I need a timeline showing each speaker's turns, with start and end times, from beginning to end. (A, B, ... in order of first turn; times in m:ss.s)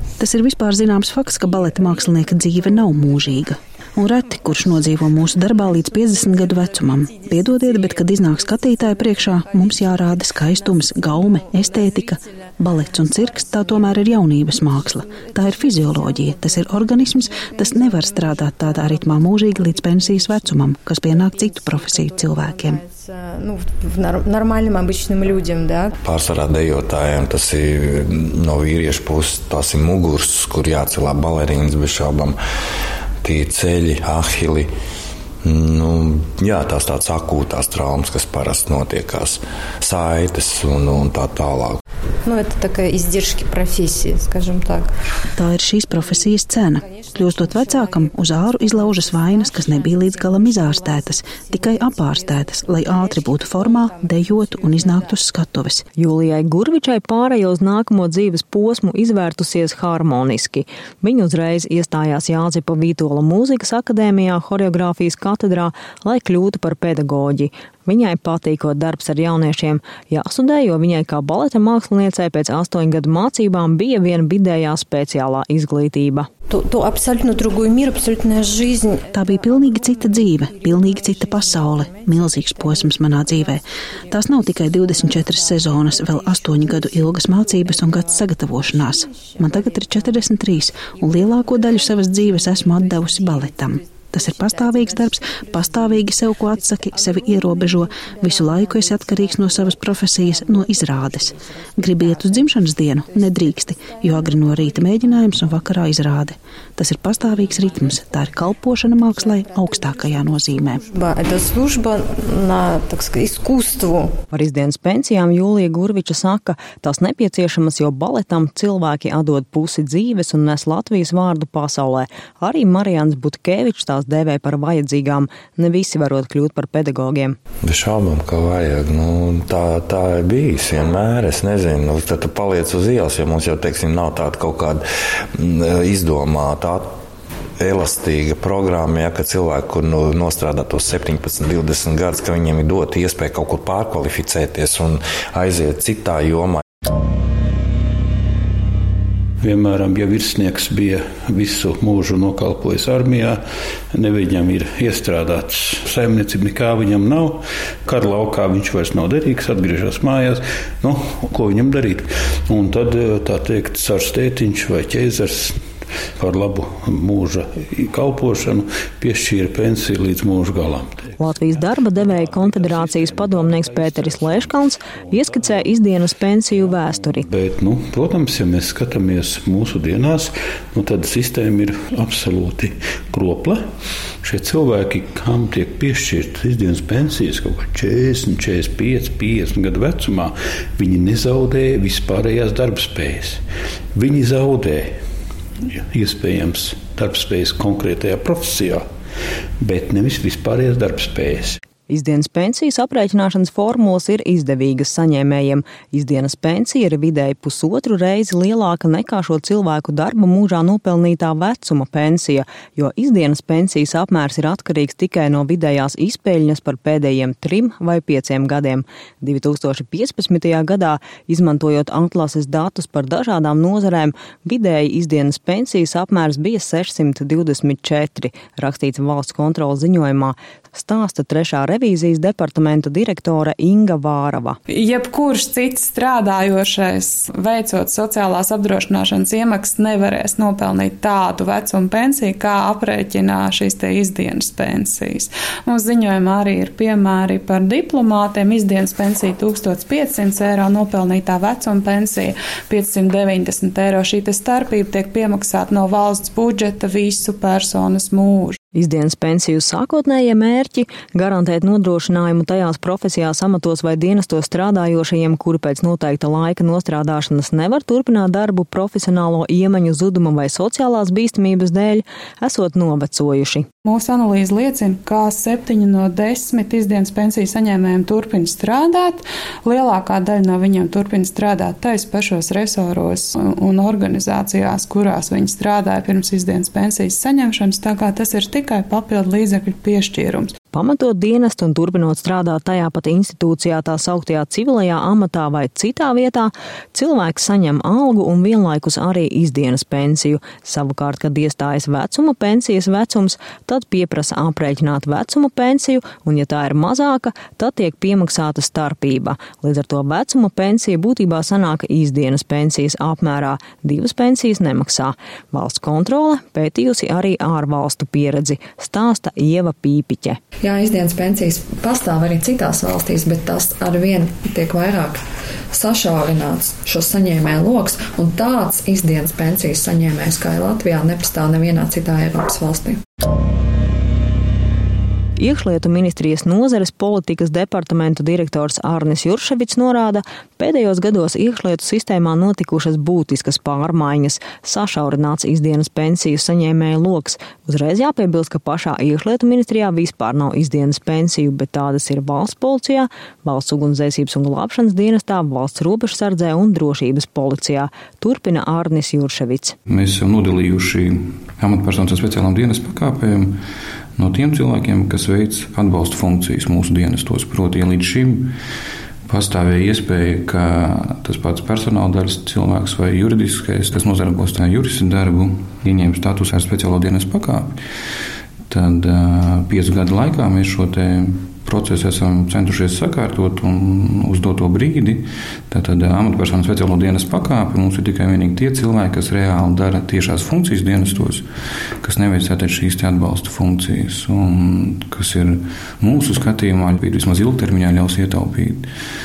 0:00.2-0:22.8 A
0:01.4-0:03.5 B
0:04.3-0:26.0 B
0:26.0-0:32.4 C
0:33.2-0:34.7 C
0:35.4-0:41.8 C
0:42.2-0:44.9 B
0:45.4-0:55.8 A
0:45.8-0:55.2 B
0:56.0-1:16.3 D
1:16.5-1:46.0 B
1:19.1-1:50.8 A
1:47.1-1:54.2 B
1:54.3-2:07.4 D
2:07.6-2:14.8 C
2:15.4-2:16.9 C
2:17.6-2:26.6 C
2:29.4-2:33.4 E
2:33.9-2:45.6 E
2:46.2-2:51.1 E
2:51.2-2:57.3 D
2:52.0-2:55.2 E
2:57.2-3:03.6 E
3:04.2-3:13.4 E
3:13.9-3:14.9 E
3:15.7-3:18.8 E
3:19.6-3:21.6 E
3:21.9-3:54.6 D
3:54.7-4:18.6 F
4:18.8-4:33.7 D
4:33.8-4:50.5 F
4:50.7-5:20.4 D
5:20.6-5:25.2 G
5:25.7-5:33.0 G
5:35.4-5:59.8 D
5:59.9-6:03.6 H
6:04.2-6:08.5 H
6:09.3-6:17.8 H
6:18.7-6:31.5 H
6:32.0-6:38.9 H